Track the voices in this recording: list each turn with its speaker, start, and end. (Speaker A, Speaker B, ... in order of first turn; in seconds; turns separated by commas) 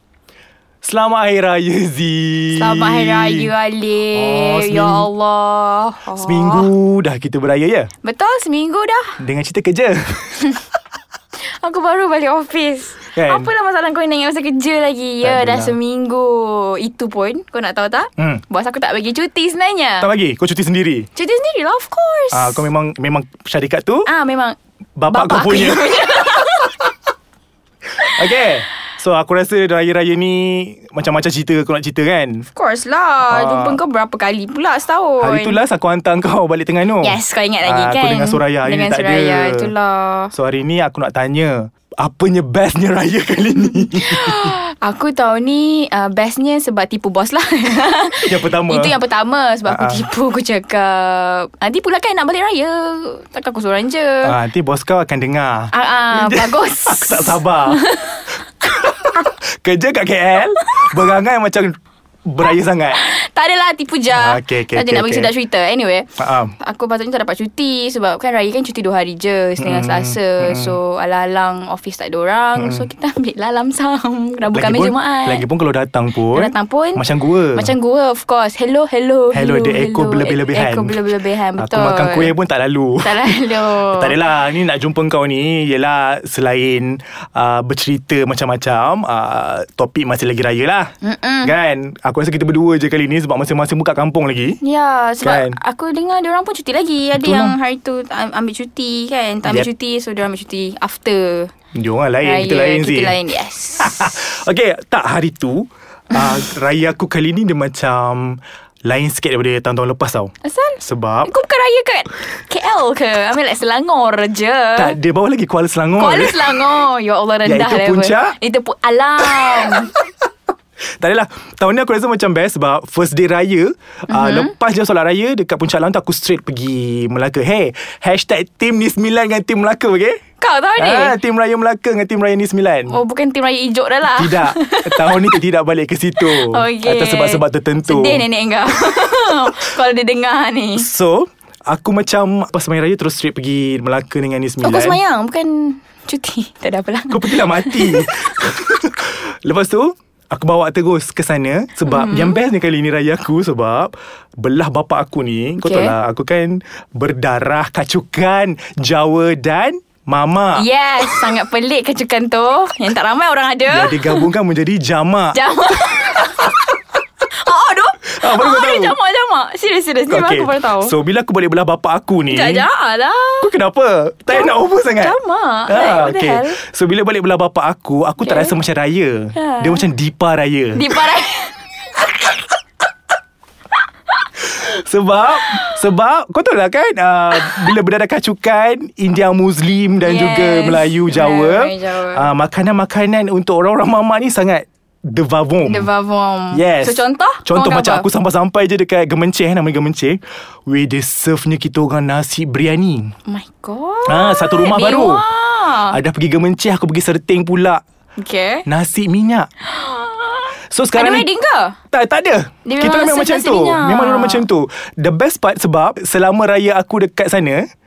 Speaker A: 0.8-3.5, Speaker B: 2.5-6.7, Speaker A: 4.1-5.1, Speaker A: 6.2-7.9, Speaker B: 8.0-9.2, Speaker A: 9.2-10.6, Speaker B: 11.4-20.1, Speaker A: 13.1-13.5, Speaker A: 15.2-15.8, Speaker A: 20.0-21.1, Speaker B: 21.2-22.7, Speaker A: 22.3-24.1, Speaker B: 24.1-24.6, Speaker A: 25.0-26.3, Speaker B: 25.1-26.9, Speaker A: 28.0-32.5, Speaker B: 32.5-35.6, Speaker A: 33.3-33.8, Speaker A: 35.2-39.7, Speaker B: 37.0-40.3, Speaker A: 40.3-44.5, Speaker B: 43.7-54.4, Speaker A: 48.2-49.0, Speaker A: 49.7-50.0, Speaker A: 54.2-57.9, Speaker B: 55.7-58.3, Speaker A: 58.6-63.0, Speaker B: 62.9-75.4, Speaker A: 64.1-65.3, Speaker A: 66.2-66.5, Speaker A: 69.6-70.8, Speaker A: 72.6-72.9, Speaker A: 74.5-77.7, Speaker B: 76.3-82.3, Speaker A: 79.3-81.0, Speaker A: 81.6-90.9, Speaker B: 83.0-84.1, Speaker B: 91.0-91.5, Speaker A: 91.4-94.6, Speaker B: 94.6-101.5, Speaker A: 95.2-95.6, Speaker A: 97.2-97.6, Speaker A: 101.7-103.2, Speaker B: 102.2-104.1, Speaker A: 103.8-111.3, Speaker B: 110.4-115.0, Speaker A: 114.8-116.7, Speaker B: 116.0-119.9, Speaker A: 117.4-118.4, Speaker A: 119.3-120.1, Speaker A: 121.0-130.2, Speaker B: 124.1-124.5, Speaker B: 130.4-131.2, Speaker A: 130.8-133.0, Speaker B: 132.9-135.4, Speaker A: 134.1-138.3, Speaker B: 136.2-140.9, Speaker A: 140.8-145.0, Speaker B: 144.6-148.2, Speaker A: 147.1-160.7, Speaker B: 151.8-152.4, Speaker B: 155.6-155.9, Speaker B: 160.5-164.3, Speaker A: 163.7-166.1, Speaker B: 165.3-166.7, Speaker B: 167.3-170.9, Speaker A: 168.2-169.0, Speaker A: 170.1-172.7, Speaker B: 172.3-173.5, Speaker A: 173.4-181.1, Speaker B: 174.3-176.6, Speaker B: 178.2-178.6, Speaker B: 179.3-179.8, Speaker B: 180.8-181.7, Speaker A: 184.5-195.9, Speaker B: 185.4-185.8, Speaker B: 190.0-192.3, Speaker B: 195.6-198.1, Speaker A: 196.5-203.1, Speaker B: 203.3-206.0, Speaker A: 204.1-205.2, Speaker A: 205.9-207.8, Speaker B: 208.2-208.6, Speaker A: 208.7-209.5, Speaker B: 209.7-211.8, Speaker A: 210.7-211.3, Speaker A: 211.9-217.6, Speaker B: 212.7-214.5